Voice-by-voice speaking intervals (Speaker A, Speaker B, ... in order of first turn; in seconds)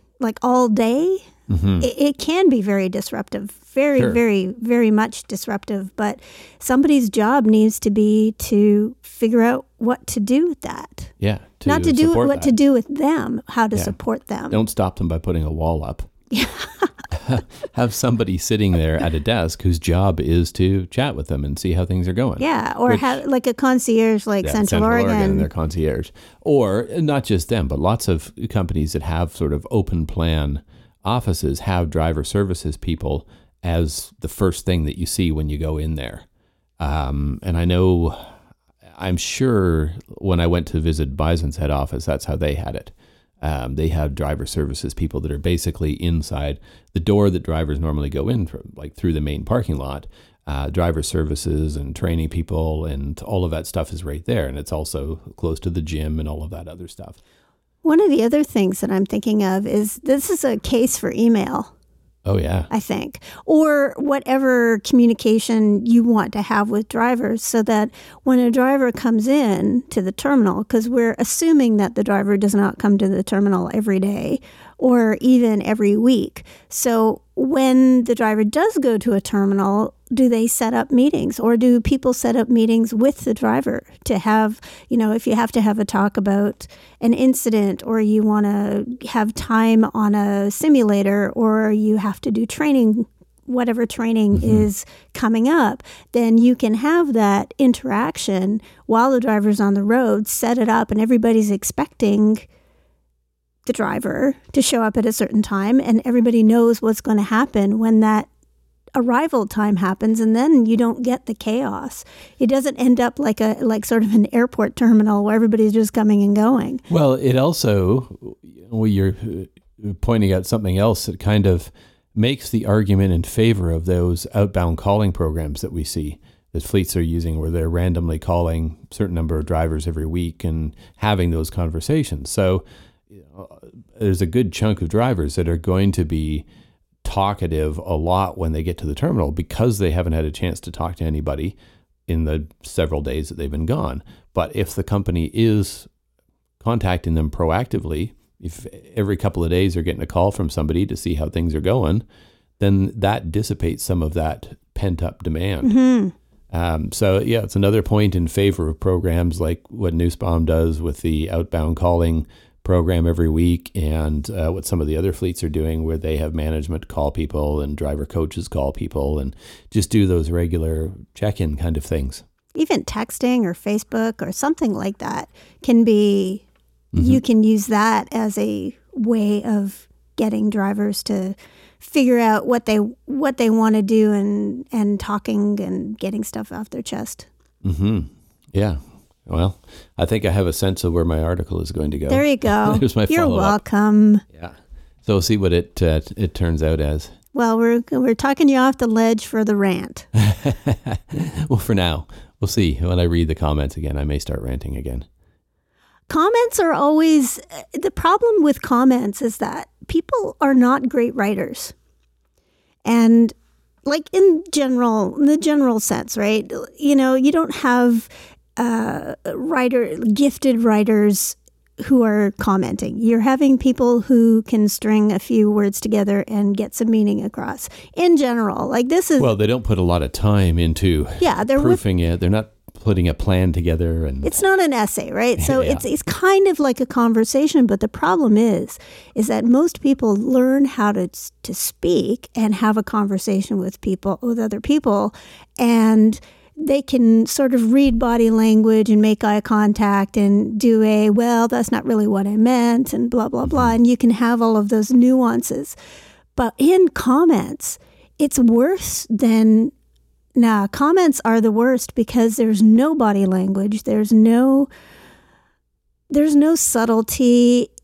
Speaker A: 0.2-1.3, 1.8-11.1, 11.7-14.6, 16.3-16.9, 22.4-25.5, 57.8-61.7, 62.7-102.5, 103.7-108.3, 109.0-116.8, 155.6-156.1, 172.6-176.4, 177.0-187.3, 192.1-194.2, 197.3-200.1, 206.1-211.7, 212.8-229.3, 231.2-231.8, 234.2-255.8, 256.4-259.7, 260.4-264.7, 266.1-267.7
Speaker B: 1.5-1.9, 11.2-12.6, 14.5-16.1, 17.1-23.2, 24.4-36.3, 36.8-38.3, 38.9-57.2, 62.2-62.7, 94.3-94.7, 116.9-136.5, 137.0-145.9, 146.6-152.0, 152.6-155.7, 156.5-172.2, 176.9-177.2, 187.6-193.6, 194.3-197.1, 200.2-205.1, 229.2-234.4, 235.4-235.8